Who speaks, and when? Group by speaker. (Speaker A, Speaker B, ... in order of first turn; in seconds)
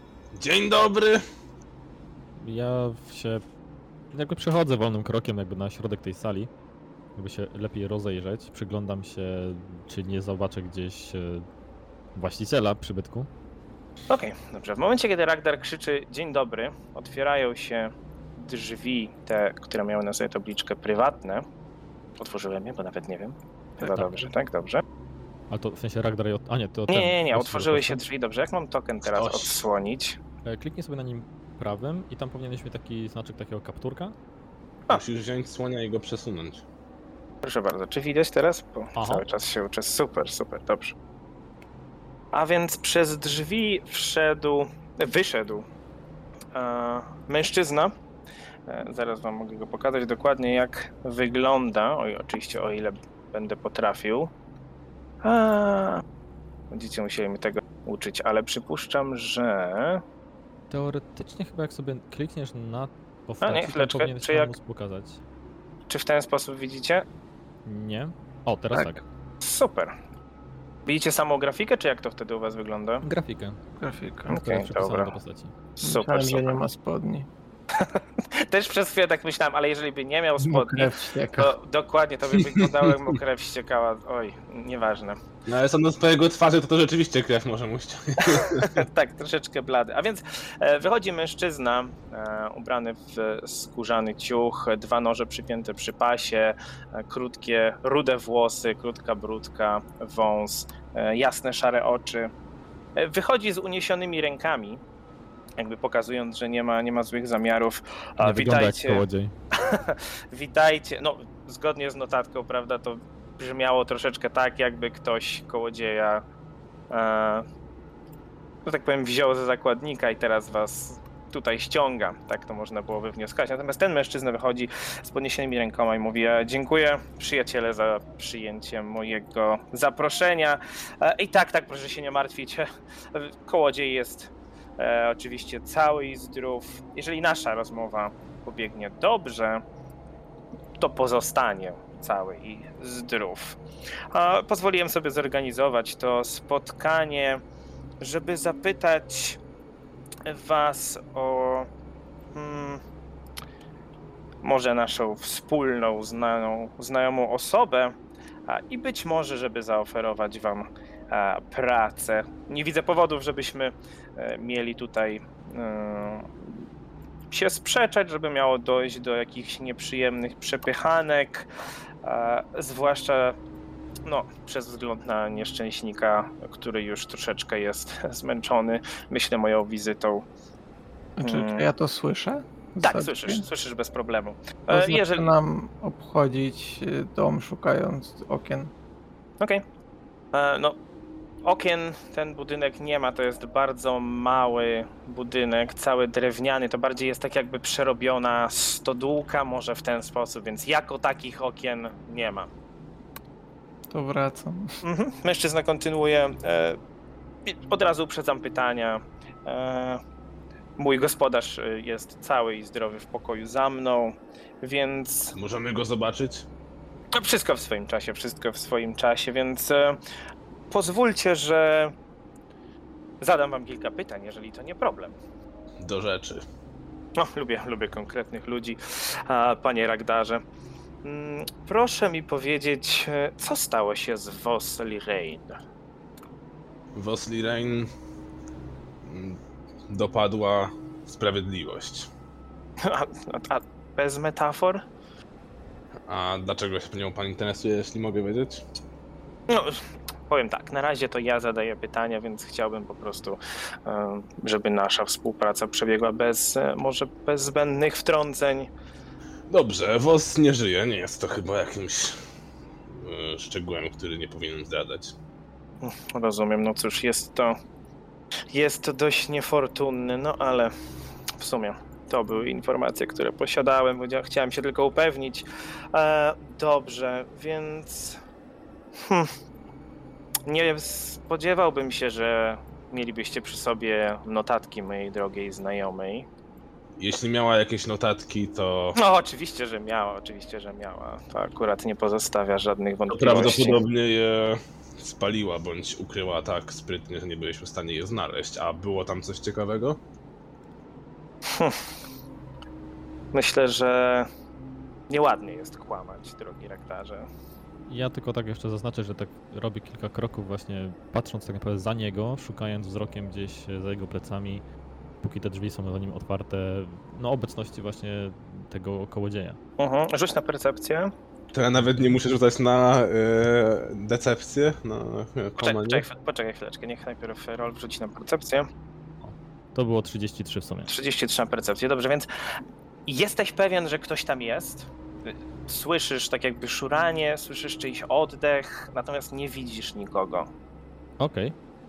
Speaker A: 0.3-1.2, 29.1-29.6, 34.9-36.6, 85.5-88.8, 215.3-216.5, 225.8-226.4, 236.9-237.9, 239.0-242.1, 246.1-248.6, 259.5-262.2, 262.9-265.1, 287.0-289.0, 293.1-300.0, 321.5-326.0
Speaker B: 2.4-3.4, 4.1-6.5, 7.2-11.5, 12.2-13.3, 23.8-24.3, 25.5-28.0, 30.5-34.1, 39.0-39.2, 60.7-65.2, 67.7-69.0, 73.0-73.6, 74.3-75.5, 108.2-109.3, 307.9-314.6, 315.2-319.6, 321.8-322.1, 329.2-330.9, 341.2-341.6
Speaker C: 14.1-21.4, 22.2-24.8, 26.9-30.2, 37.4-41.0, 42.3-45.6, 46.5-47.9, 48.7-54.3, 55.2-56.0, 56.7-60.0, 63.4-64.5, 65.9-67.0, 69.4-69.9, 70.9-73.0, 74.3-75.1, 75.8-76.6, 77.7-85.2, 88.2-102.3, 103.0-104.8, 105.6-109.0, 109.5-116.2, 116.9-117.5, 118.7-139.6, 140.8-143.6, 144.1-147.4, 148.0-149.4, 150.3-151.7, 152.3-152.8, 154.4-158.0, 158.5-166.5, 167.3-171.5, 172.0-173.4, 174.1-180.2, 181.2-181.7, 182.8-185.3, 190.3-190.8, 191.4-202.5, 204.8-206.8, 207.5-210.0, 210.8-215.3, 217.1-220.0, 220.7-221.9, 223.2-225.2, 227.2-230.4, 231.0-235.6, 242.8-244.8, 249.5-258.7, 265.8-267.6, 268.5-270.7, 271.4-278.2, 279.0-279.3, 280.5-286.3, 289.0-293.8, 301.5-301.8, 303.3-304.3, 305.1-307.3, 319.8-321.1, 325.6-328.7, 330.9-332.3, 333.1-340.5
Speaker D: 73.8-74.4, 75.8-77.3, 80.4-81.5, 181.2-183.4, 184.7-188.7, 203.9-204.8